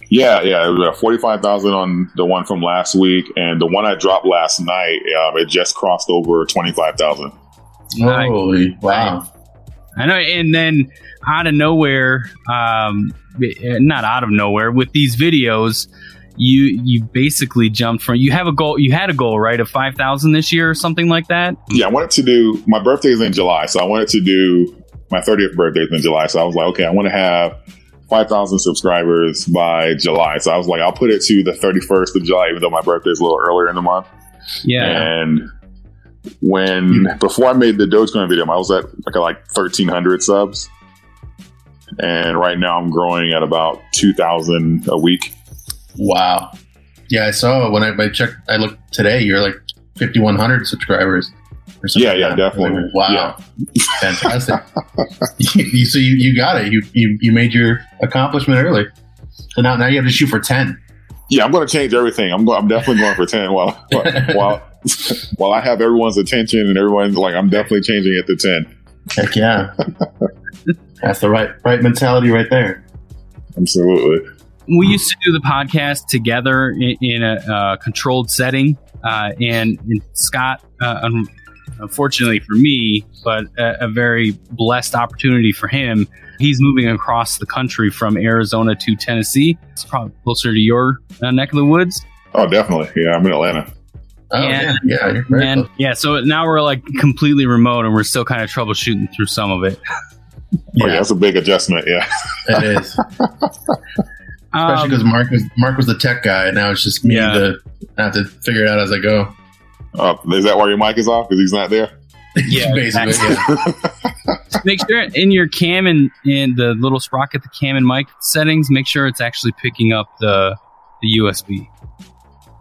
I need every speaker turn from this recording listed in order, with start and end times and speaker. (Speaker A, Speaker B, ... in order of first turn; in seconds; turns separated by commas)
Speaker A: 0.1-7.3, Speaker B: 8.0-9.3, Speaker C: 8.0-9.2, Speaker C: 10.0-21.8, Speaker A: 21.7-27.6, Speaker A: 28.1-34.1, Speaker C: 34.6-35.1, Speaker A: 34.8-35.5, Speaker A: 36.4-40.7, Speaker A: 42.0-45.3, Speaker B: 46.0-46.5, Speaker B: 47.1-53.4, Speaker A: 52.0-54.0, Speaker B: 54.0-54.6, Speaker B: 55.4-58.9, Speaker B: 59.5-60.8, Speaker A: 61.3-68.7, Speaker B: 63.9-64.5, Speaker B: 69.1-69.7, Speaker B: 71.0-72.8, Speaker A: 73.6-74.2, Speaker C: 74.7-81.3, Speaker C: 81.8-92.0, Speaker A: 92.3-93.7, Speaker B: 94.3-95.7, Speaker C: 94.4-99.8, Speaker A: 100.7-103.7, Speaker B: 100.8-101.0, Speaker B: 102.5-103.0, Speaker C: 104.5-105.0, Speaker B: 104.6-109.3, Speaker C: 107.0-107.5, Speaker A: 110.0-111.9, Speaker B: 112.4-113.5, Speaker C: 112.5-113.4, Speaker A: 113.3-114.4, Speaker C: 114.6-121.7